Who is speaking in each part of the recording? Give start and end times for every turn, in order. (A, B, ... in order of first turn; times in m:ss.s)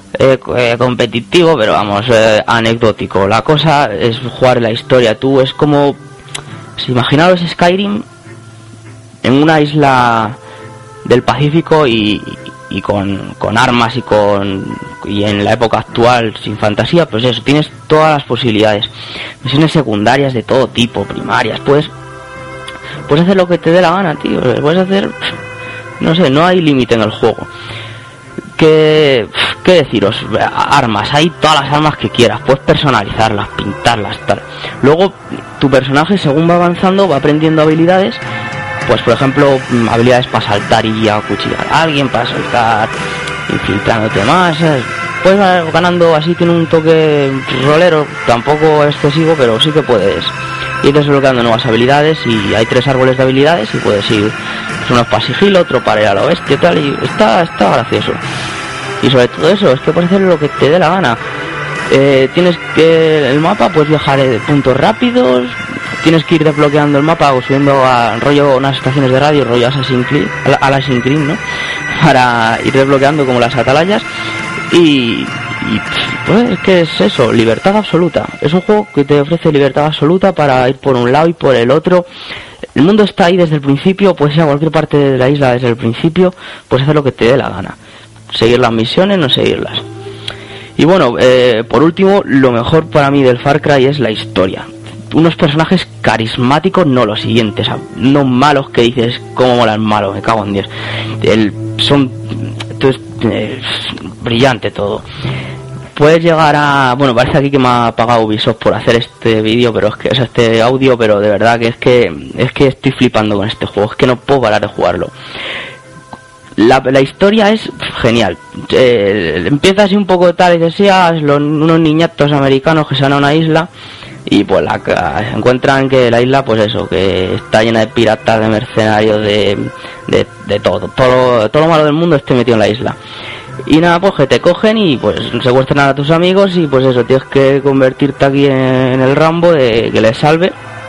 0:00.2-0:06.0 A
0:06.8-0:08.0 A
0:09.2-0:10.4 A
0:11.0-0:18.9 A
0:19.4-0:21.9 A
0:23.1-0:25.1 A
0:26.0-0:27.5 A
0:28.6-0:38.2 A
0:38.8-0:42.9 A
0:43.5-0:58.2 A
0:59.0-1:01.2 A
1:01.9-1:11.4 A
1:12.0-1:14.0 A
1:14.7-1:22.0 A
1:22.8-1:27.8 A
1:28.3-1:29.8 A
1:30.8-1:40.7 A
1:41.2-1:45.0 A
1:45.9-1:55.1 A
1:56.6-2:03.7 A
2:04.3-2:13.0 A
2:13.6-2:20.5 A